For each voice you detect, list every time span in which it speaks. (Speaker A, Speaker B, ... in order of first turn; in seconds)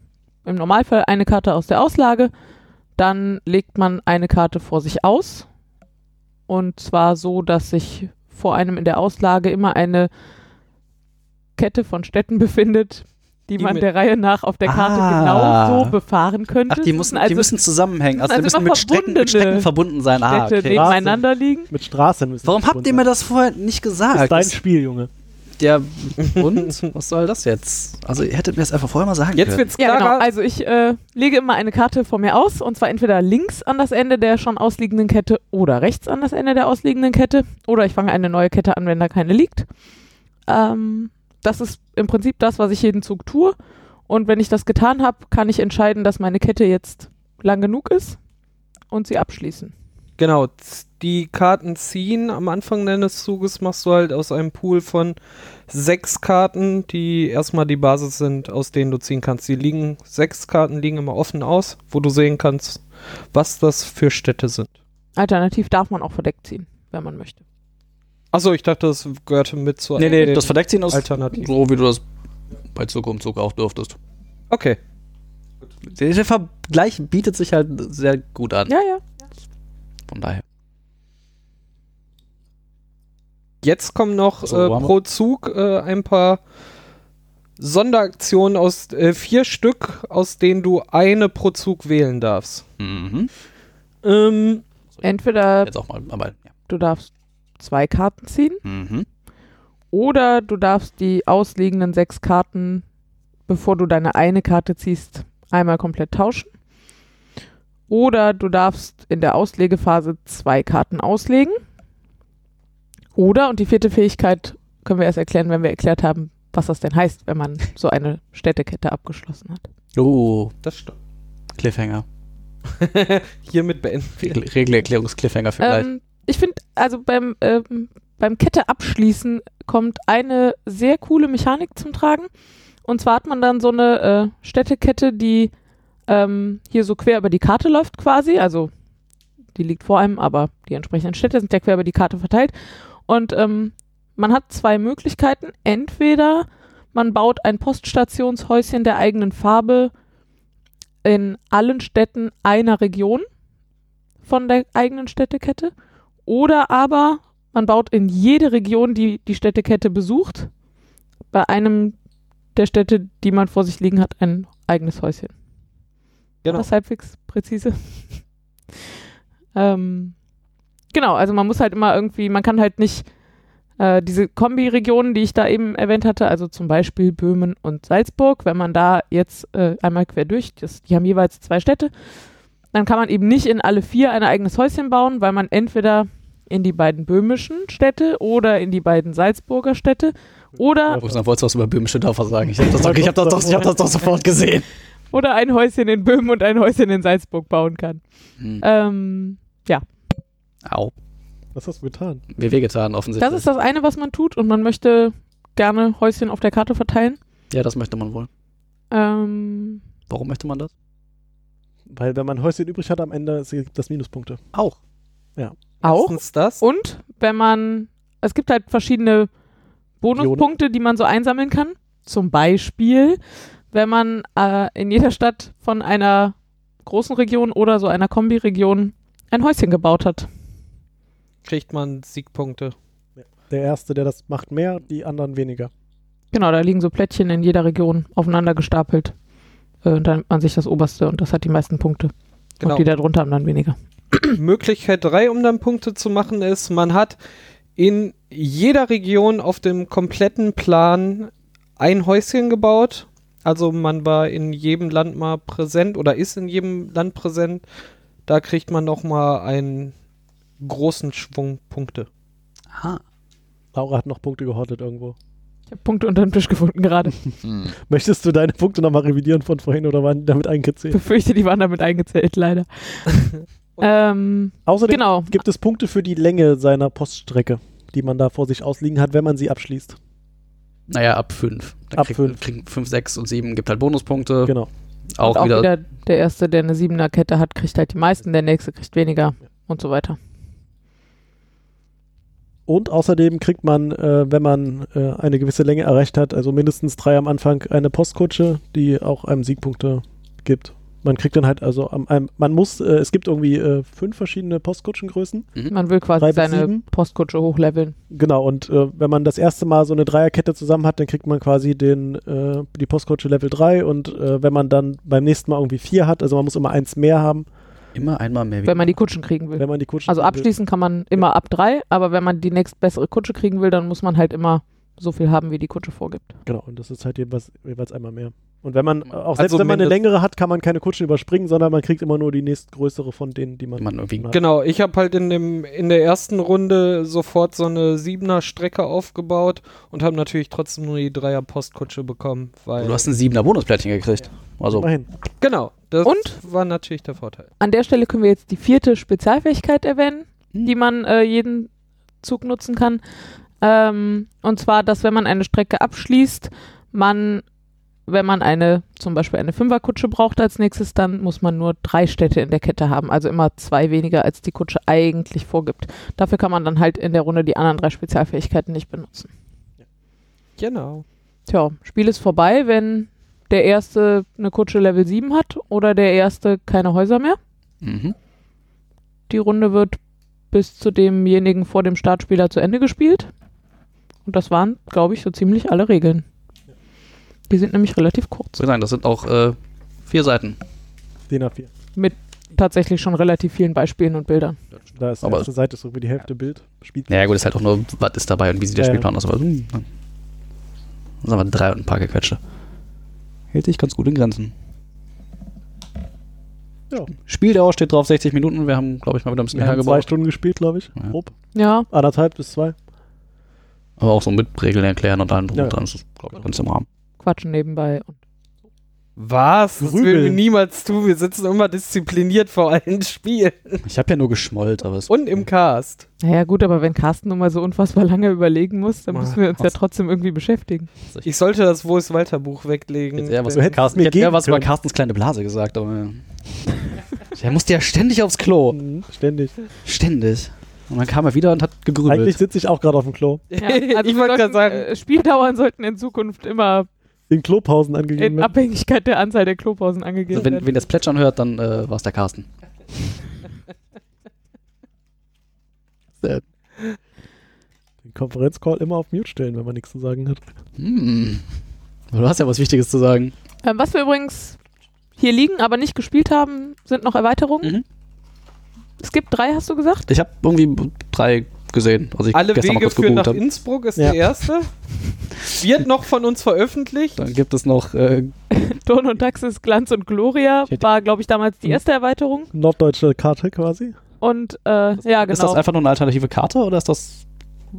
Speaker A: 0.4-2.3, 3.0-5.5, 6.5-10.1, 11.6-17.6, 18.1-19.7, 20.2-21.7, 29.8-39.7, 40.5-43.5, 44.1-48.2, 48.9-49.7, 65.2-67.4, 78.7-79.0, 95.0-95.7, 96.7-98.6, 99.9-102.8, 103.5-106.5, 107.9-111.6, 113.2-119.7, 125.6-132.3, 132.8-135.5, 136.1-138.7, 139.5-142.5, 143.1-149.9, 151.0-153.3, 154.2-155.7, 156.2-160.5, 161.3-161.9, 162.5-165.3, 166.5-168.0, 169.5-170.2, 170.9-173.1, 173.8-181.9, 182.7-191.0, 195.1-198.0, 198.6-199.9, 203.2-207.2, 208.9-209.8, 215.8-219.3, 220.0-223.2, 223.7-230.3, 236.3-239.1, 239.8-244.4, 265.7-267.2, 270.9-275.4, 285.2-290.2, 305.7-307.9, 318.6-326.4, 346.0-346.4, 347.6-351.7, 352.2-353.0, 353.6-357.4, 358.1-369.3, 371.5-377.4, 379.3-380.0, 380.5-383.3, 384.2-386.2, 387.5-388.6, 391.9-394.6, 411.5-411.9, 417.2-418.2, 426.2-430.9, 443.6-446.9, 448.2-450.7, 463.6-464.6, 465.2-467.8, 469.0-470.1, 478.5-482.5, 484.2-485.6
Speaker B: 13.6-13.8, 26.2-26.7, 29.4-30.3, 50.2-55.1, 55.7-62.8, 63.3-64.7, 68.3-71.5, 74.5-74.8, 83.6-86.4, 87.6-92.6, 94.0-94.6, 120.6-120.9, 122.7-124.4, 215.8-216.6, 231.4-232.7, 242.6-242.8, 244.4-247.2, 247.8-257.6, 258.3-259.9, 260.6-262.1, 329.4-330.0, 334.3-343.0, 345.4-347.5, 370.6-371.0, 419.2-423.8, 425.1-426.0, 429.1-429.4, 431.2-433.7, 443.5-444.9, 472.3-474.7, 475.5-477.2
Speaker C: 14.7-15.9, 16.7-21.0, 22.4-24.5, 25.6-29.6, 70.0-72.0, 72.7-74.0, 75.8-78.7, 80.1-80.4, 84.4-84.9, 92.8-93.3, 95.6-96.5, 98.6-99.0, 119.9-120.5, 121.5-122.0, 124.2-125.9, 190.9-194.7, 198.4-198.6, 200.6-200.9, 202.3-203.5, 207.5-208.3, 210.1-210.7, 262.7-263.0, 267.4-267.7, 280.9-284.6, 285.1-285.7, 317.9-318.9, 333.8-334.3, 342.8-344.9, 377.8-378.1, 388.6-390.6, 395.2-395.5, 397.1-399.9, 401.2-402.4, 403.5-404.5, 407.2-410.1, 414.0-416.9, 423.8-425.4, 433.2-436.2, 437.3-438.8, 439.8-442.4, 450.3-452.5, 460.8-461.4, 462.1-463.3, 470.1-473.4, 477.1-478.3, 485.2-487.2
Speaker D: 20.7-23.0, 24.1-25.1, 192.6-193.7, 201.5-202.2, 211.9-214.4, 220.2-220.5, 233.2-235.7, 263.7-265.1, 267.7-271.0, 274.6-280.0, 281.9-282.4, 284.4-284.7, 292.7-305.5, 306.2-306.8, 308.1-317.5, 319.6-320.5, 326.4-334.4, 344.7-345.1, 391.3-391.7, 394.9-397.1, 398.8-399.1, 409.5-411.3, 411.9-412.8, 419.8-420.4, 433.5-434.7, 438.7-439.5, 442.1-443.4, 447.3-448.5, 458.0-460.4, 482.5-483.9